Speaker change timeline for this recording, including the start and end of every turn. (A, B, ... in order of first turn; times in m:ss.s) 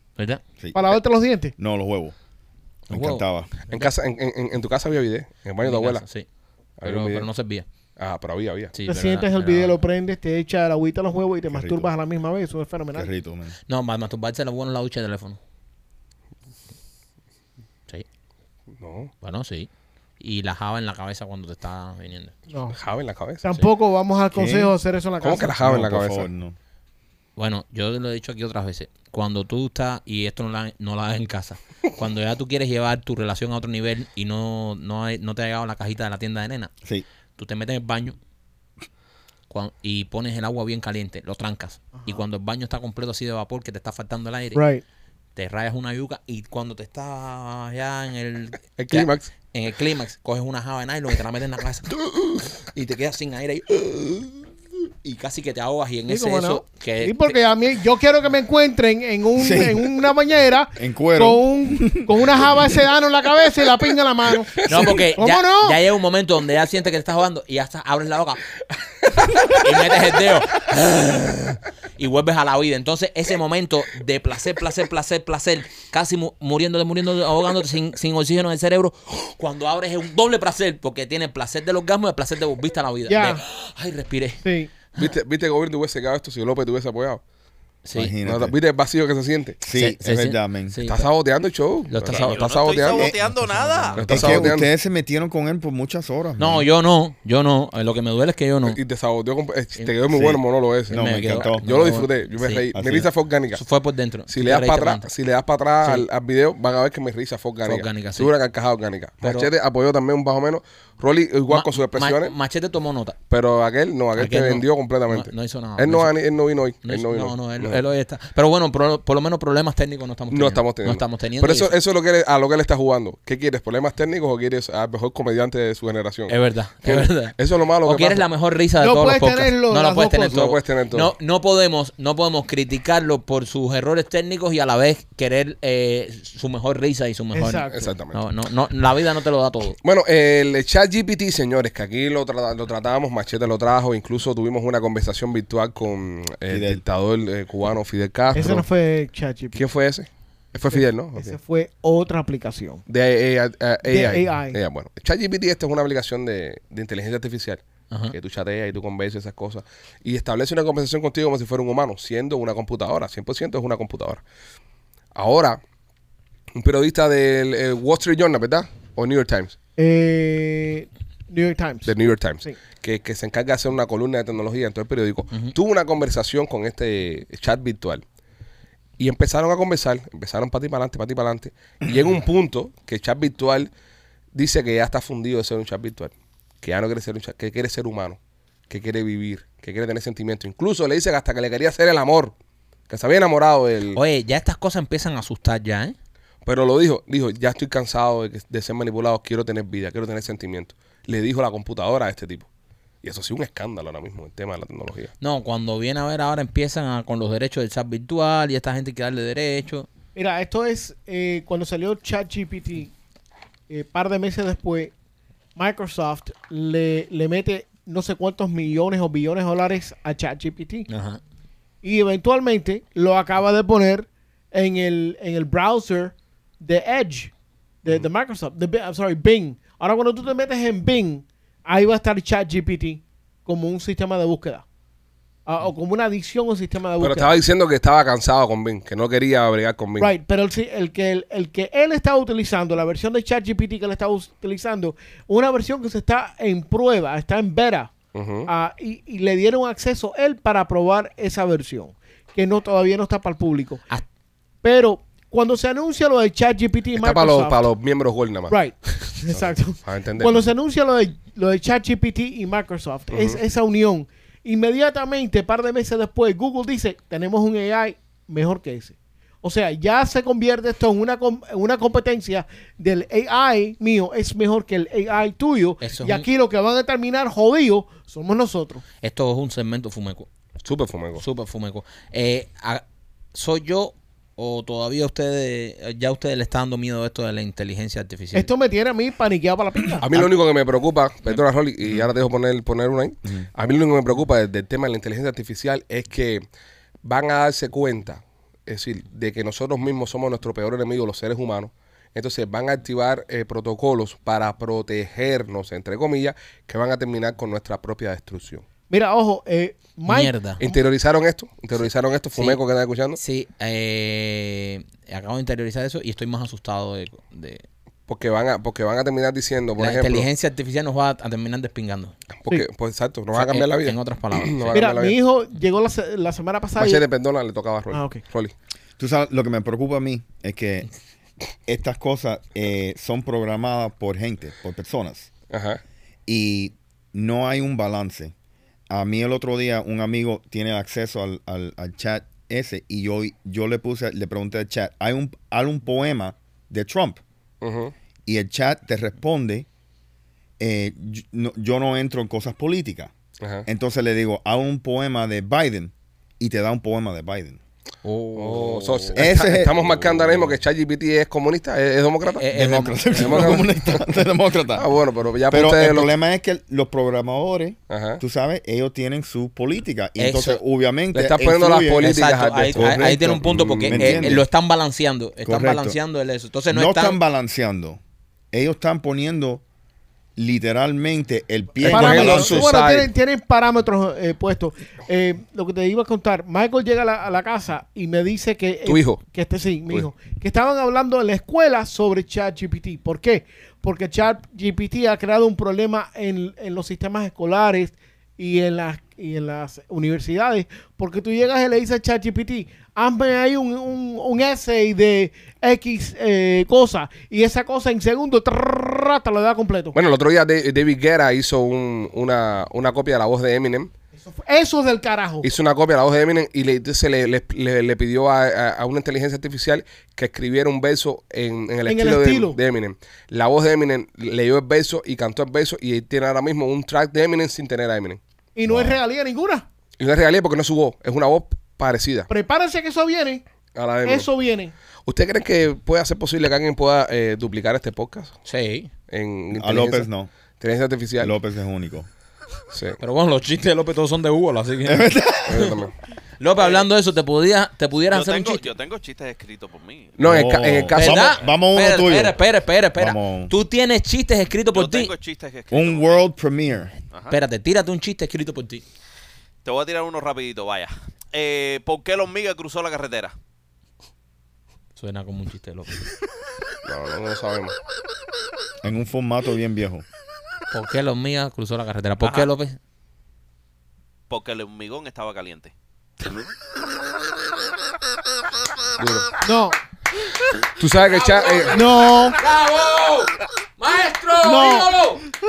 0:00.6-0:00.9 A
0:00.7-0:01.5 B
0:01.6-0:02.2 A
0:02.9-0:03.5 A
0:02.9-0:03.9 C
0:03.7-0:06.0 D
0:05.6-0:06.3 C
0:06.8-0:07.3 D
0:06.8-0:07.6 C
0:08.0-0:08.7 D
0:08.7-0:09.8 C
0:08.9-0:13.1 B
0:11.5-0:11.9 A
0:12.9-0:13.6 A
0:13.7-0:15.4 C
0:18.8-0:19.1 D
0:19.2-0:19.7 C
0:20.2-0:22.3 C
0:22.5-0:22.8 B
0:22.7-0:23.4 D
0:23.4-0:25.6 B
0:24.3-0:24.8 A
0:25.2-0:26.3 D
0:25.6-0:26.6 A
0:27.4-0:36.7 C
0:37.4-0:38.2 C
0:39.5-0:44.6 C
0:44.6-0:44.8 B
0:45.4-0:52.0 C
0:48.8-0:49.3 D
0:52.6-0:54.4 C
0:55.0-0:57.4 C
0:56.1-1:05.8 B
0:59.4-1:00.0 A
1:00.8-1:02.8 A
1:04.4-1:04.9 D
1:04.6-1:08.4 C
1:09.2-1:24.4 C
1:23.1-1:23.4 B
1:24.4-1:24.7 B
1:25.0-1:27.2 D
1:27.8-1:28.1 C
1:28.0-1:28.6 A
1:28.2-1:29.6 D
1:29.6-1:30.8 A
1:29.7-1:31.1 C
1:30.9-1:33.1 D
1:31.9-1:34.5 C
1:32.1-1:34.1 E
1:34.0-1:34.7 D
1:34.1-1:36.7 A
1:36.4-1:38.8 C
1:38.6-1:43.6 D
1:40.1-1:41.6 A
1:40.9-1:42.6 C
1:42.7-1:43.1 A
1:43.5-1:45.1 C
1:44.3-1:52.3 D
1:47.7-1:48.3 C
1:49.2-1:49.5 C
1:51.5-1:53.2 C
1:53.3-1:57.8 D
1:54.2-1:56.1 C
1:56.8-2:01.7 C
2:00.3-2:08.2 D
2:06.3-2:19.8 C
2:08.8-2:10.4 B
2:10.3-2:11.1 D
2:17.3-2:17.9 B
2:17.7-2:18.2 D
2:19.8-2:28.6 D
2:26.5-2:26.8 A
2:28.3-2:29.6 B
2:29.6-2:31.4 D
2:30.7-2:32.8 B
2:32.9-2:37.6 D
2:33.9-2:34.6 B
2:38.1-2:44.2 D
2:45.2-2:45.6 D
2:46.6-2:49.6 D
2:49.8-2:52.6 B
2:51.8-2:58.0 D
2:59.0-3:03.7 D
3:04.4-3:08.2 D
3:08.7-3:12.3 D
3:12.9-3:14.0 D
3:14.0-3:16.0 C
3:16.4-3:22.5 D
3:23.0-3:25.1 D
3:25.2-3:29.9 C
3:30.2-3:32.9 B
3:33.7-3:34.9 B
3:35.6-3:40.9 B
3:40.9-3:41.2 C
3:41.8-3:47.3 B
3:47.8-3:54.6 B
3:55.5-3:57.3 B
3:57.0-4:00.1 D
4:00.0-4:07.9 B
4:08.1-4:08.5 D
4:08.5-4:13.8 B
4:14.6-4:17.6 B
4:17.0-4:20.5 D
4:18.5-4:38.8 B
4:23.1-4:23.4 D
4:35.8-4:36.3 C
4:39.0-4:40.3 C
4:40.6-4:41.2 D
4:41.2-4:42.8 C
4:43.3-4:48.5 C
4:48.3-4:50.1 B
4:50.0-4:56.4 D
4:57.0-5:08.6 D
5:08.9-5:10.8 B
5:10.1-5:10.6 C
5:10.6-5:13.2 D
5:12.4-5:12.6 C
5:13.2-5:17.6 C
5:18.1-5:20.3 D
5:19.8-5:22.1 C
5:22.3-5:25.2 D
5:23.3-5:24.8 C
5:24.7-5:27.0 B
5:26.8-5:28.5 D
5:27.9-5:28.2 B
5:29.0-5:30.9 A
5:31.7-5:35.3 A
5:35.5-5:35.8 D
5:36.3-5:38.3 A
5:38.9-5:47.2 A
5:47.6-5:47.9 D
5:48.3-5:49.7 A
5:50.6-5:53.1 A
5:53.4-5:53.7 D
5:53.7-5:57.6 A
5:58.0-5:59.6 C
5:58.4-6:02.4 D
5:59.2-6:00.5 A
6:02.3-6:03.7 C
6:02.5-6:04.9 A
6:03.1-6:04.0 D
6:04.7-6:06.1 D
6:05.5-6:14.4 A
6:07.9-6:08.2 D
6:10.2-6:10.6 C
6:11.1-6:14.4 D
6:12.0-6:17.2 C
6:15.4-6:16.0 A
6:16.7-6:18.0 A
6:18.5-6:19.6 A
6:20.4-6:22.7 A
6:21.8-6:23.1 D
6:21.8-6:50.0 B
6:28.8-6:29.2 D
6:49.9-6:53.9 D
6:54.2-6:55.5 B
6:55.4-7:08.2 D
7:01.9-7:02.6 B
7:08.6-7:09.6 B
7:08.7-7:09.0 A
7:10.0-7:12.3 D
7:12.3-7:13.4 B
7:13.8-7:14.3 D
7:14.0-7:14.7 B
7:15.1-7:18.4 D
7:18.5-7:18.9 C
7:19.1-7:20.1 D
7:19.5-7:20.3 A
7:20.6-7:21.4 D
7:21.2-7:22.1 A
7:22.7-7:23.0 D
7:23.0-7:25.1 C
7:24.8-7:25.8 A
7:25.5-7:25.9 D
7:26.4-7:28.7 C
7:26.6-7:26.9 E
7:28.1-7:30.2 E
7:30.2-7:31.2 D
7:30.2-7:32.4 A
7:30.9-7:35.1 C
7:33.0-7:33.5 A
7:34.7-7:36.2 E
7:35.7-7:36.9 A
7:37.1-7:37.4 E
7:37.3-7:38.8 C
7:39.6-7:43.4 E
7:45.0-7:46.0 C
7:46.8-7:47.8 D
7:48.8-7:50.0 A
7:50.7-7:52.8 C
7:52.2-7:52.5 E
7:54.3-7:55.7 E
7:59.0-7:59.3 D
7:59.4-7:59.8 B
8:00.8-8:01.9 D
8:01.1-8:05.2 C
8:01.7-8:02.4 B
8:04.4-8:04.9 B